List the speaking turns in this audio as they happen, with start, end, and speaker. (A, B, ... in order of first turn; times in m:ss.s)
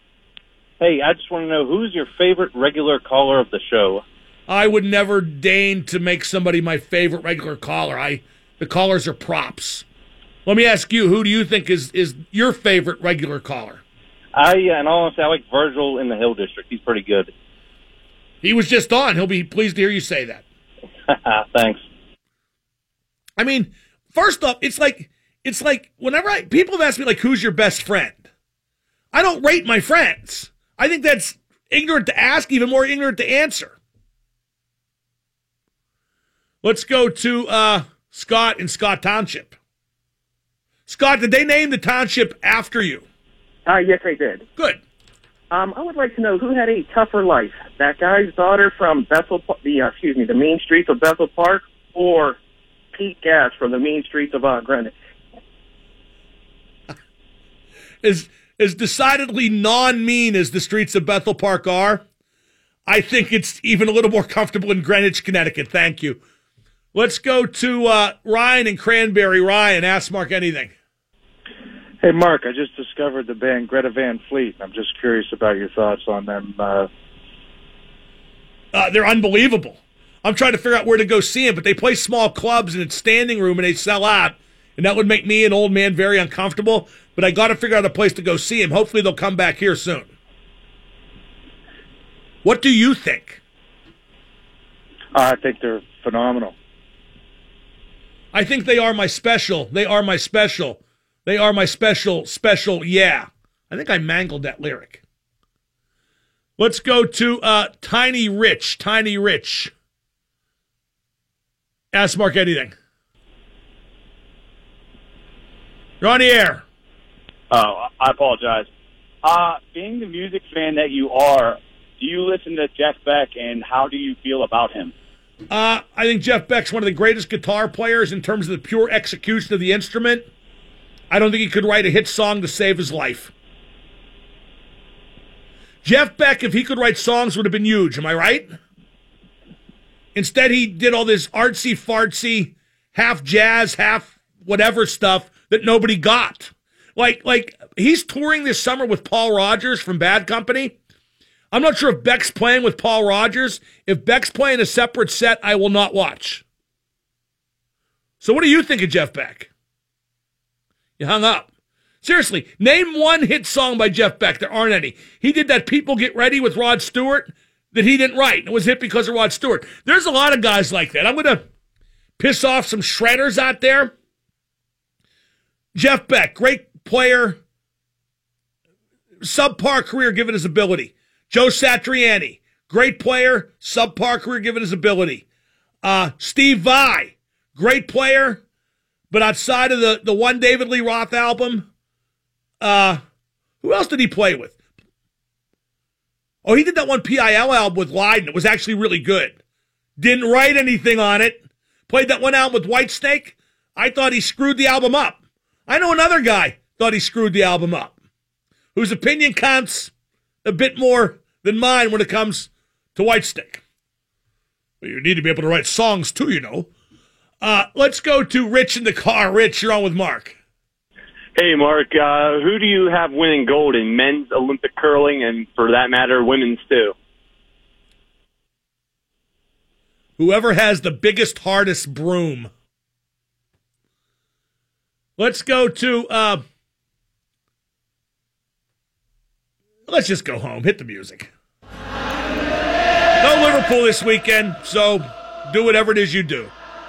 0:00.8-0:04.0 A
0:04.5-0:09.8 B
0:10.4-0:13.8 B
0:14.3-0:17.3 A
0:18.4-0:20.4 B
0:21.1-0:21.8 A
0:23.4-0:28.2 B
0:29.1-0:33.8 B
0:36.6-0:39.5 B
0:40.9-0:43.0 B
0:43.6-0:44.4 C
0:45.5-0:52.4 C
0:52.9-0:54.9 C
0:58.0-1:02.0 B
1:02.9-1:06.2 B
1:06.9-1:10.7 B
1:12.0-1:16.9 D
1:18.7-1:30.1 B
1:32.4-1:33.4 B
1:35.1-1:36.5 D
1:38.3-1:45.0 B
1:46.6-1:49.7 B
1:51.9-1:52.7 B
1:56.0-1:56.6 B
1:57.5-1:58.7 E
1:59.2-2:04.9 E
2:05.5-2:10.3 B
2:11.1-2:13.3 B
2:15.8-2:18.5 B
2:20.1-2:30.8 B
2:31.5-2:36.4 B
2:38.2-2:39.5 B
2:41.0-2:41.5 B
2:42.0-2:51.4 B
2:52.2-2:53.9 B
2:55.7-2:57.4 B
2:59.2-3:05.2 B
3:05.8-3:08.4 B
3:09.1-3:11.7 B
3:12.6-3:13.0 B
3:13.6-3:14.6 B
3:16.4-3:19.4 B
3:20.0-3:28.0 B
3:28.7-3:29.9 B
3:30.4-3:33.6 B
3:34.8-3:36.7 B
3:37.4-3:40.4 B
3:41.3-3:46.9 F
3:50.2-3:52.5 B
3:55.2-3:56.4 B
3:59.9-4:01.3 B
4:03.2-4:06.5 B